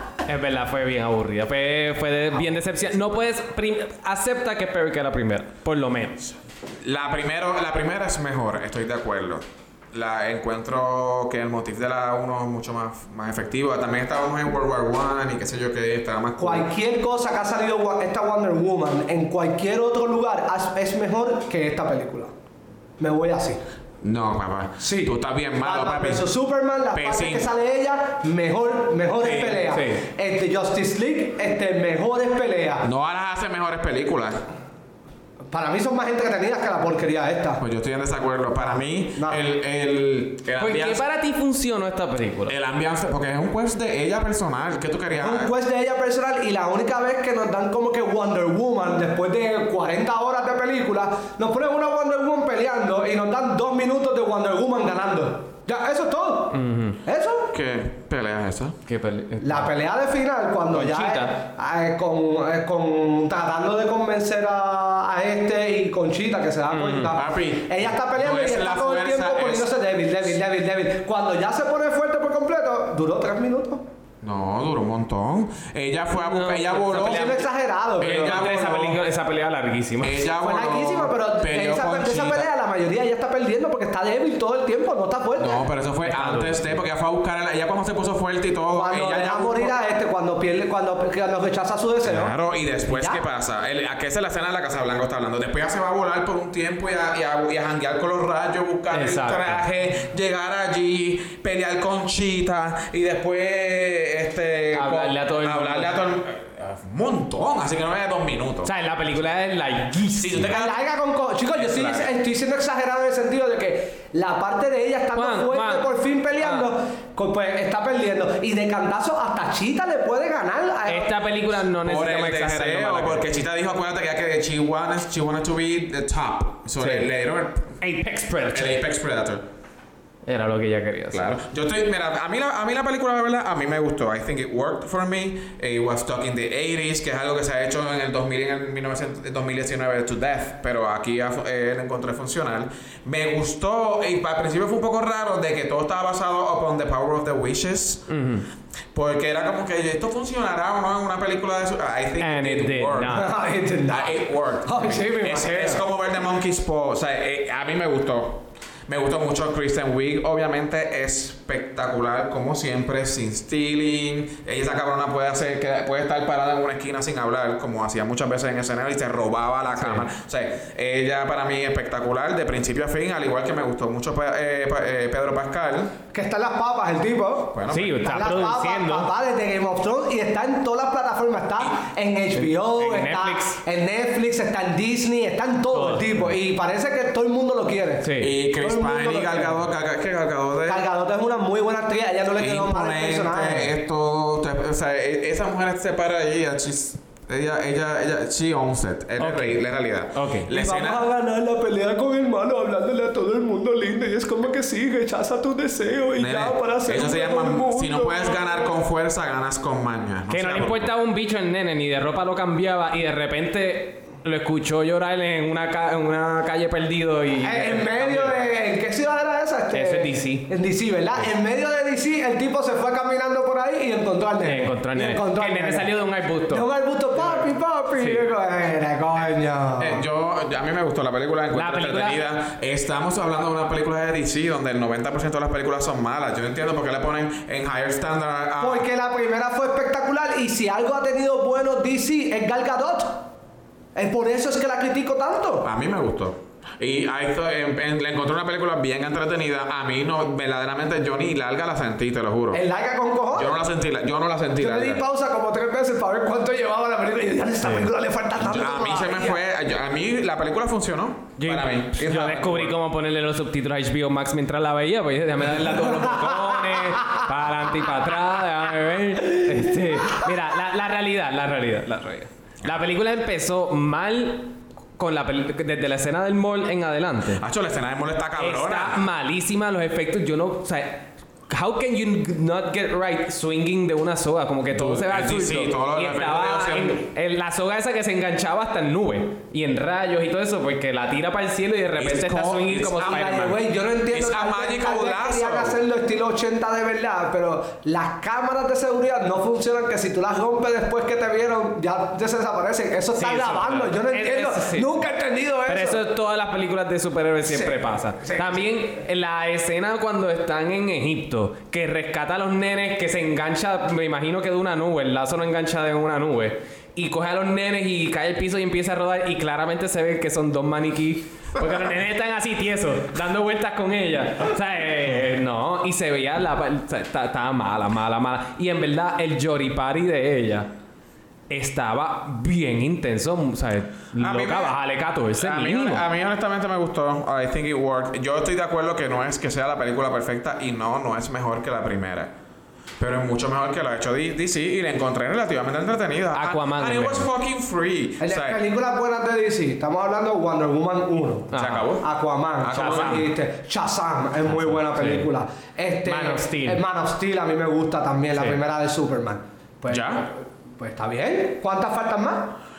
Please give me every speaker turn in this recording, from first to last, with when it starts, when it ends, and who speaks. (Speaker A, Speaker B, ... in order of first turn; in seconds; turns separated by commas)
Speaker A: 0.2-6.3, Speaker B: 6.8-16.7, Speaker C: 16.4-22.3, Speaker C: 23.0-23.6, Speaker B: 24.0-26.3, Speaker C: 24.8-32.9, Speaker B: 26.9-27.5, Speaker A: 29.3-30.0, Speaker B: 32.8-34.4, Speaker C: 35.5-37.6, Speaker B: 37.6-41.0, Speaker A: 40.6-42.5, Speaker B: 42.5-45.5, Speaker C: 45.2-57.5, Speaker A: 56.5-57.0, Speaker B: 57.5-58.8, Speaker A: 58.9-59.7, Speaker C: 59.4-73.8, Speaker A: 60.7-61.3, Speaker A: 66.7-67.2, Speaker B: 67.1-69.7, Speaker B: 74.2-77.5, Speaker A: 76.1-77.5, Speaker C: 76.9-78.9, Speaker B: 78.0-79.0, Speaker A: 78.0-80.3, Speaker B: 80.0-82.5, Speaker C: 80.4-85.7, Speaker B: 85.4-89.7, Speaker A: 86.0-86.6, Speaker C: 88.7-92.3, Speaker B: 92.0-108.7, Speaker C: 92.9-93.2, Speaker A: 98.9-99.7, Speaker A: 104.7-106.0, Speaker A: 108.6-110.5, Speaker B: 110.2-110.8, Speaker C: 110.5-121.1, Speaker B: 111.6-112.1, Speaker A: 115.1-116.7, Speaker A: 120.9-123.2, Speaker B: 121.8-127.7, Speaker A: 126.8-127.1, Speaker A: 127.8-128.8, Speaker B: 128.5-129.4, Speaker A: 130.3-131.3, Speaker B: 131.1-148.1, Speaker A: 148.1-148.5, Speaker B: 148.9-153.3, Speaker A: 152.2-153.3, Speaker C: 153.1-155.8, Speaker B: 153.9-175.9, Speaker A: 169.8-170.1, Speaker C: 176.1-189.6, Speaker B: 177.5-178.2, Speaker A: 177.7-179.1, Speaker A: 182.4-183.6, Speaker A: 185.7-186.2, Speaker A: 188.0-188.3, Speaker B: 188.2-190.8, Speaker C: 190.7-193.7, Speaker B: 192.4-201.0, Speaker A: 199.2-199.6, Speaker A: 200.1-200.5, Speaker C: 200.5-208.7, Speaker B: 206.2-210.9, Speaker A: 210.3-218.4, Speaker C: 217.4-225.9, Speaker A: 219.7-220.5, Speaker A: 224.4-228.3, Speaker C: 226.5-230.0, Speaker B: 229.8-238.9, Speaker A: 231.5-232.2, Speaker C: 238.6-243.3, Speaker C: 243.9-245.7, Speaker B: 245.6-252.6, Speaker C: 252.5-253.6, Speaker B: 253.3-255.0, Speaker C: 254.6-259.4, Speaker B: 258.4-262.8, Speaker A: 261.4-277.4, Speaker C: 265.9-267.1, Speaker B: 277.3-279.0, Speaker A: 278.4-293.6, Speaker B: 284.7-287.0, Speaker B: 292.0-293.4, Speaker C: 293.0-306.0, Speaker B: 294.1-295.8, Speaker A: 303.2-305.0, Speaker A: 305.7-330.7, Speaker C: 307.4-308.6, Speaker A: 331.5-336.1, Speaker B: 334.2-334.8, Speaker B: 335.3-342.3, Speaker B: 343.0-348.6, Speaker A: 346.3-347.3, Speaker C: 348.2-362.6, Speaker A: 351.5-351.9, Speaker B: 351.5-352.1, Speaker B: 352.6-353.3, Speaker A: 352.7-353.3, Speaker A: 354.5-355.3, Speaker A: 356.1-356.8, Speaker B: 359.9-360.3